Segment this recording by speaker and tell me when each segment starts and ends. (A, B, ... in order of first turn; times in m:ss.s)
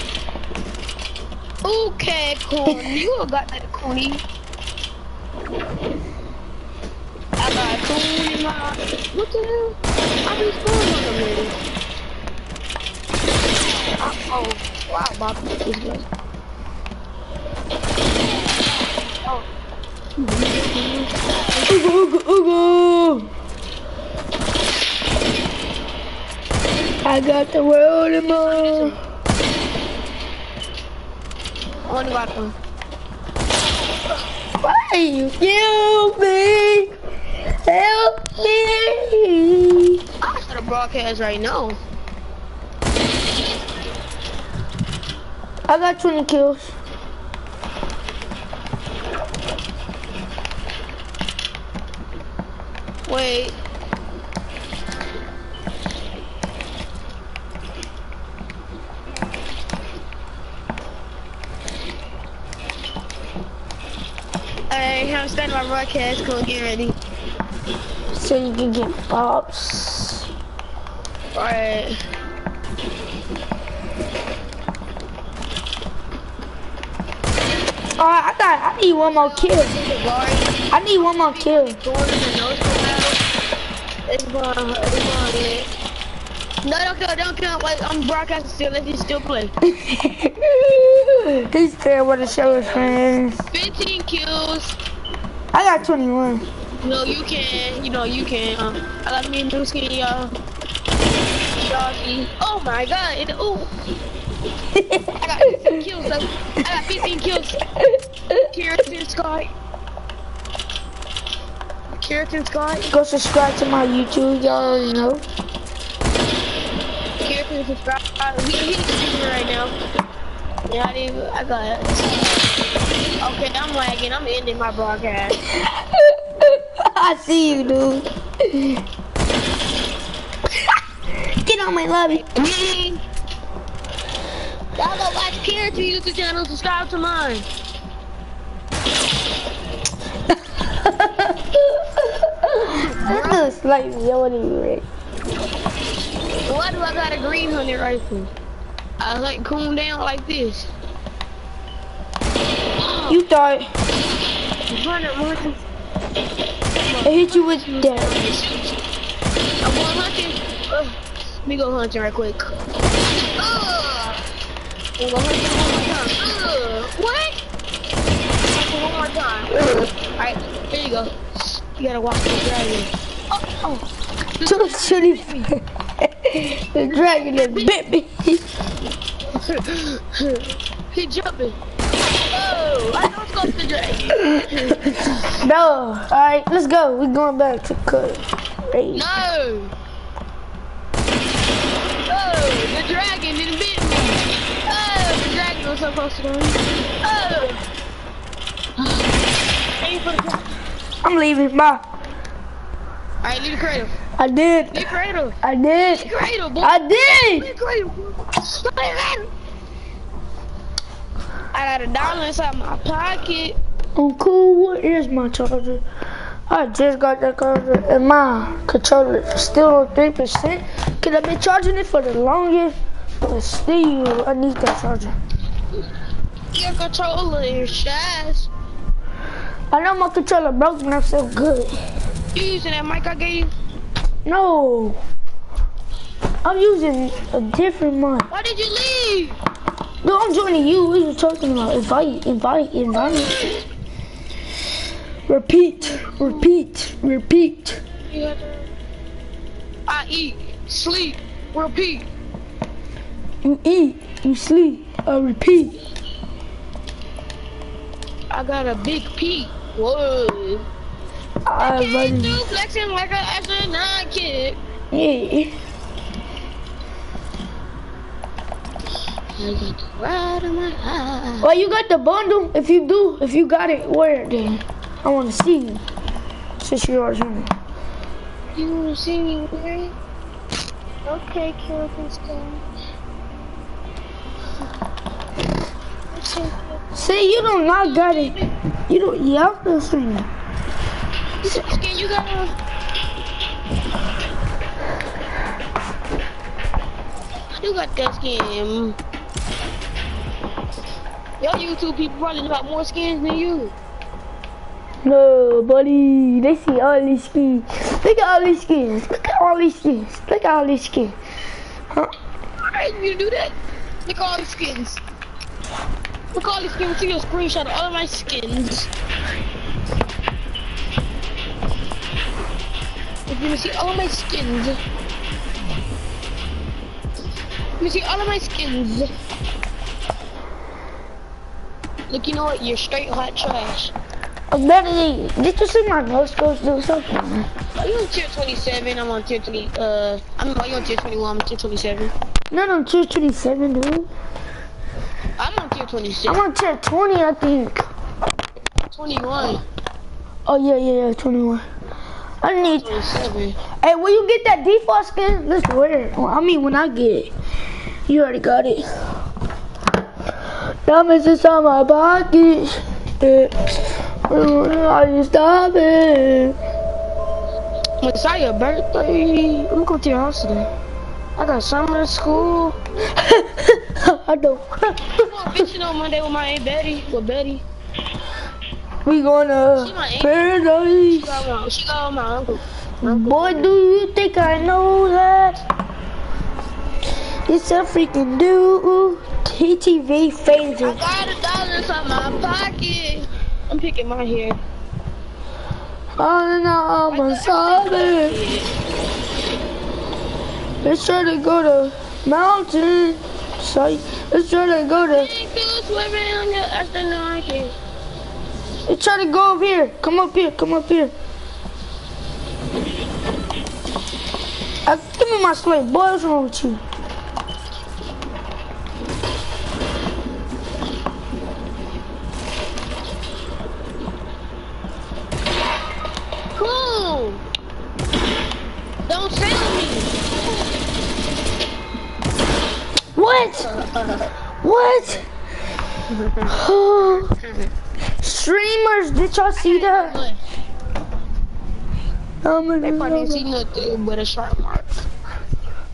0:01.6-0:04.2 A
0:07.4-0:11.5 A
0:14.1-0:16.0 A
0:20.2-0:21.1 A
0:21.6-0:23.3 B
0:27.0-0:29.0 B
0:28.5-0:29.0 A
0:31.9-0:32.5 A
0:34.6-0:40.0 B
0:40.2-0:41.8 A
0:45.7-0:46.7 B
0:53.1-0:53.5 A
1:04.7-1:07.0 A
1:08.1-1:10.3 B
1:11.3-1:12.0 A
1:18.0-1:19.7 B
1:19.0-1:20.6 A
1:20.7-1:21.8 B
1:21.3-1:23.2 A
1:24.0-1:25.7 A
1:26.6-1:29.5 A
1:29.6-1:33.4 B
1:32.2-1:33.0 A
1:33.5-1:34.8 A
1:35.5-1:36.4 B
1:36.8-1:40.3 A
1:41.6-1:43.7 A
1:44.7-1:45.8 B
1:45.2-1:47.6 A
1:47.8-1:48.3 B
1:48.4-1:49.5 A
1:52.0-1:52.9 A
1:52.9-1:55.2 B
1:57.2-1:59.7 A
2:00.7-2:02.5 A
2:03.2-2:05.4 A
2:05.6-2:08.8 B
2:11.4-2:12.3 B
2:12.2-2:13.0 A
2:14.8-2:17.5 A
2:20.3-2:24.8 B
2:22.8-2:23.5 A
2:26.5-2:28.3 A
2:29.0-2:30.7 A
2:32.8-2:33.2 A
2:33.1-2:33.7 B
2:34.7-2:35.6 A
2:36.8-2:38.8 A
2:37.0-2:38.1 B
2:39.6-2:42.5 A
2:43.4-2:44.2 A
2:45.0-2:47.4 A
2:48.5-2:52.9 A
2:53.5-2:53.8 A
2:54.4-2:55.4 A
2:54.4-2:58.5 B
2:57.1-2:57.7 A
2:59.3-3:01.6 A
3:02.3-3:04.8 A
3:04.4-3:09.1 B
3:08.9-3:09.7 A
3:12.1-3:17.6 A
3:19.8-3:20.5 A
3:21.0-3:21.8 B
3:23.2-3:23.9 A
3:24.2-3:24.9 B
3:24.7-3:25.4 A
3:25.4-3:27.5 B
3:26.0-3:29.3 A
3:31.5-3:33.6 A
3:34.0-3:35.8 B
3:36.5-3:45.2 B
3:46.5-3:48.5 A
3:49.7-3:51.8 B
3:52.3-3:53.5 A
3:54.2-3:55.0 B
3:56.4-3:58.3 B
3:58.3-3:59.4 A
4:00.0-4:03.4 B
4:02.9-4:03.6 A
4:05.3-4:07.8 B
4:05.9-4:06.5 A
4:08.1-4:08.7 A
4:09.9-4:12.1 A
4:13.4-4:15.8 B
4:18.3-4:20.7 A
4:21.4-4:22.4 B
4:21.6-4:24.6 A
4:24.9-4:25.5 B
4:29.4-4:31.5 A
4:31.4-4:35.8 B
4:36.6-4:37.5 B
4:38.5-4:39.9 A
4:41.0-4:42.6 A
4:46.1-4:46.8 A
4:46.9-4:50.3 B
4:48.1-4:48.4 A
4:51.4-4:52.5 A
4:57.5-4:59.0 A
5:01.4-5:03.7 A
5:05.0-5:11.2 B
5:12.6-5:15.0 A
5:16.3-5:18.9 A
5:23.3-5:24.8 A
5:27.8-5:29.1 A
5:32.1-5:33.9 A
5:34.5-5:37.5 B
5:37.8-5:42.1 A
5:42.5-5:44.1 B
5:45.4-5:46.4 A
5:46.2-5:47.9 B
5:48.9-5:49.6 A
5:50.4-5:51.6 B
5:52.4-5:53.0 B
5:52.7-5:53.6 A
5:53.8-5:57.3 B
5:58.1-5:58.9 B
6:00.8-6:06.6 B
6:08.0-6:10.7 A
6:11.4-6:12.8 A
6:13.1-6:15.2 B
6:15.2-6:17.6 A
6:19.0-6:21.4 B
6:19.8-6:20.5 A
6:21.1-6:23.7 A
6:23.0-6:25.6 B
6:27.5-6:31.0 B
6:30.7-6:34.6 A
6:36.2-6:38.4 B
6:37.1-6:38.7 A
6:40.8-6:45.3 B
6:45.1-6:47.7 A
6:48.9-6:51.1 B
6:54.8-6:56.8 B
7:06.6-7:07.4 A
7:09.0-7:10.1 A
7:13.1-7:13.7 B
7:13.6-7:14.3 A
7:14.6-7:15.2 B
7:16.1-7:16.6 A
7:16.5-7:17.3 B
7:18.2-7:20.2 B
7:19.6-7:20.4 A
7:22.4-7:23.4 B
7:22.8-7:25.0 A